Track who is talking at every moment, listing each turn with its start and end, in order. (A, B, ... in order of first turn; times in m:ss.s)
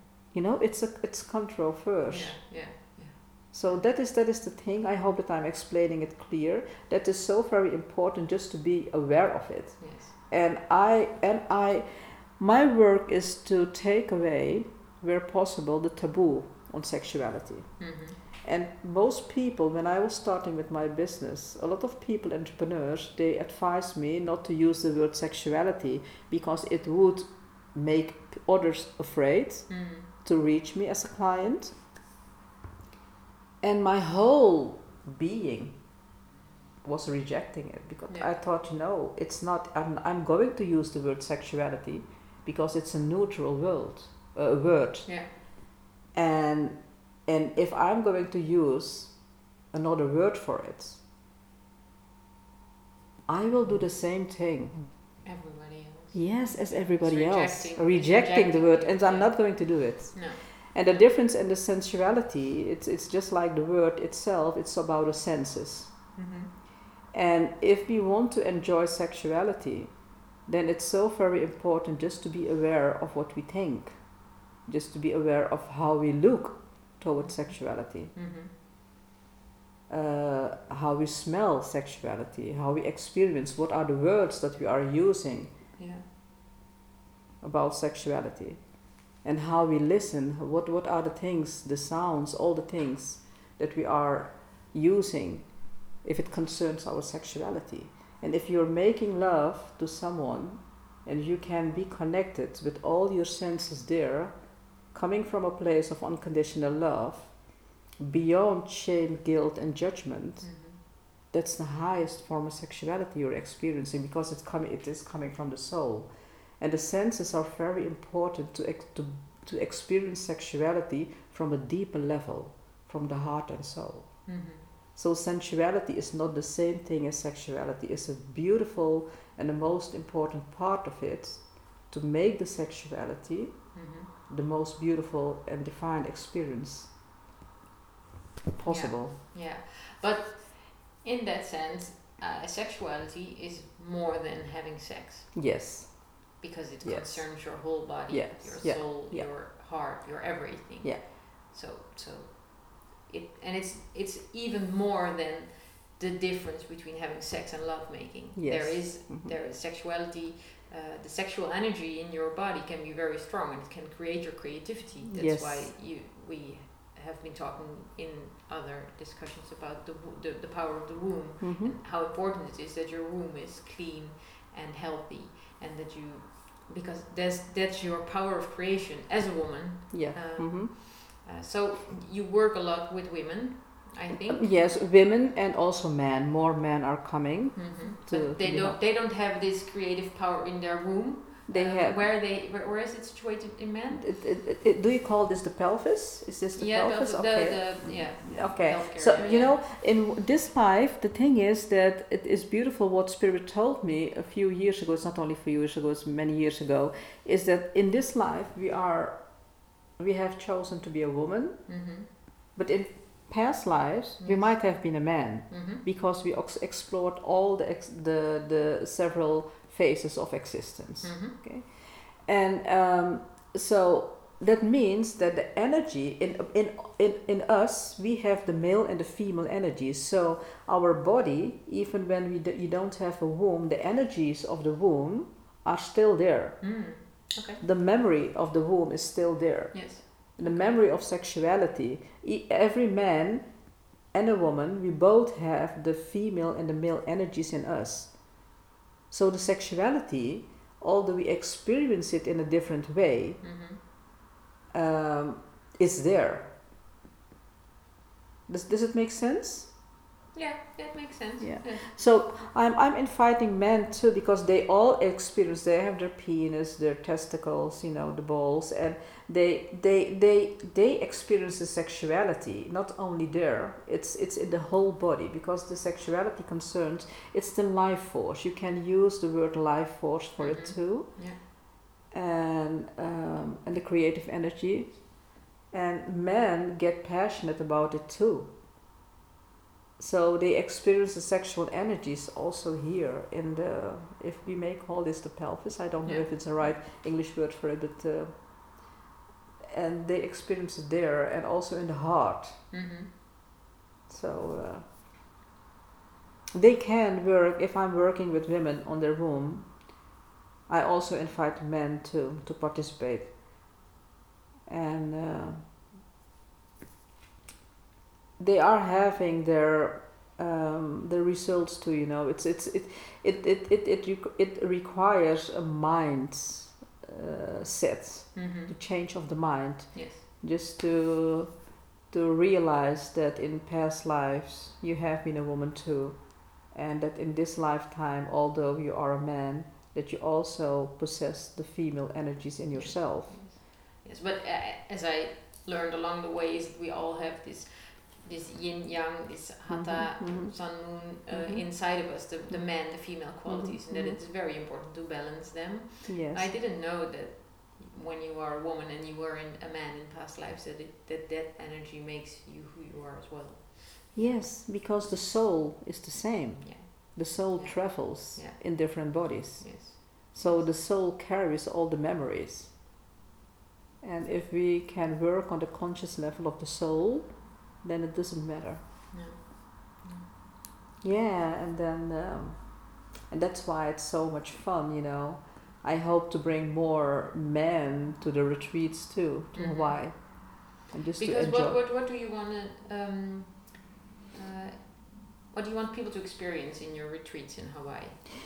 0:00.3-0:02.4 A
0:02.1-0:03.8 B
0:03.5-0:31.7 A
0:09.8-0:10.1 B
0:17.8-0:18.2 B
0:29.7-0:30.1 B
0:33.6-0:35.8 A
0:36.8-0:45.2 A
0:38.1-0:38.3 B
0:45.0-0:45.3 B
0:46.1-0:51.0 A
0:53.3-0:54.8 A
0:55.2-1:01.0 B
0:56.1-1:05.9 A
1:06.2-1:06.5 B
1:07.1-1:14.1 A
1:14.6-1:18.1 A
1:17.2-1:18.5 B
1:19.9-1:25.5 A
1:25.8-1:26.0 B
1:27.4-1:44.3 A
1:44.9-1:47.4 A
1:48.0-1:50.6 A
1:50.4-1:50.8 B
1:51.3-2:04.3 A
2:04.2-2:04.7 B
2:04.9-2:16.9 A
2:13.7-2:14.1 B
2:18.5-2:19.2 A
2:18.7-2:25.4 B
2:25.3-2:26.2 A
2:26.4-3:04.5 B
2:26.8-2:29.3 A
2:38.3-2:39.4 A
2:45.1-2:45.7 A
2:51.4-2:51.8 A
2:59.9-3:00.7 A
3:04.3-3:08.8 A
3:07.6-3:14.1 B
3:11.5-3:12.0 A
3:13.9-3:31.8 A
3:16.6-3:19.6 B
3:31.7-3:32.1 B
3:32.5-3:56.8 A
3:34.2-3:34.7 B
3:35.5-3:35.8 B
3:41.0-3:41.4 B
3:56.6-3:57.6 B
3:57.6-4:03.6 A
3:59.7-4:00.8 B
4:04.1-4:08.2 A
4:09.1-4:13.4 A
4:13.4-4:13.8 B
4:14.7-4:16.5 A
4:18.5-4:19.7 A
4:20.3-4:21.9 B
4:21.4-4:41.4 A
4:40.4-4:41.4 B
4:42.1-4:45.1 A
4:45.7-4:48.5 A
4:50.0-4:58.4 A
4:56.0-4:56.6 B
4:59.7-5:02.7 A
5:02.7-5:03.1 B
5:04.1-5:04.9 A
5:06.5-5:09.8 A
5:10.7-5:13.3 A
5:14.7-5:15.7 A
5:18.4-5:43.4 A
5:28.3-5:28.7 B
5:29.9-5:30.2 B
5:42.7-6:04.0 B
5:49.7-5:54.2 A
5:56.1-5:56.5 A
6:04.1-6:12.7 A
6:06.6-6:10.7 B
6:14.0-6:18.8 A
6:19.1-6:20.3 B
6:21.0-6:31.8 A
6:29.5-6:30.3 B
6:31.2-6:38.2 B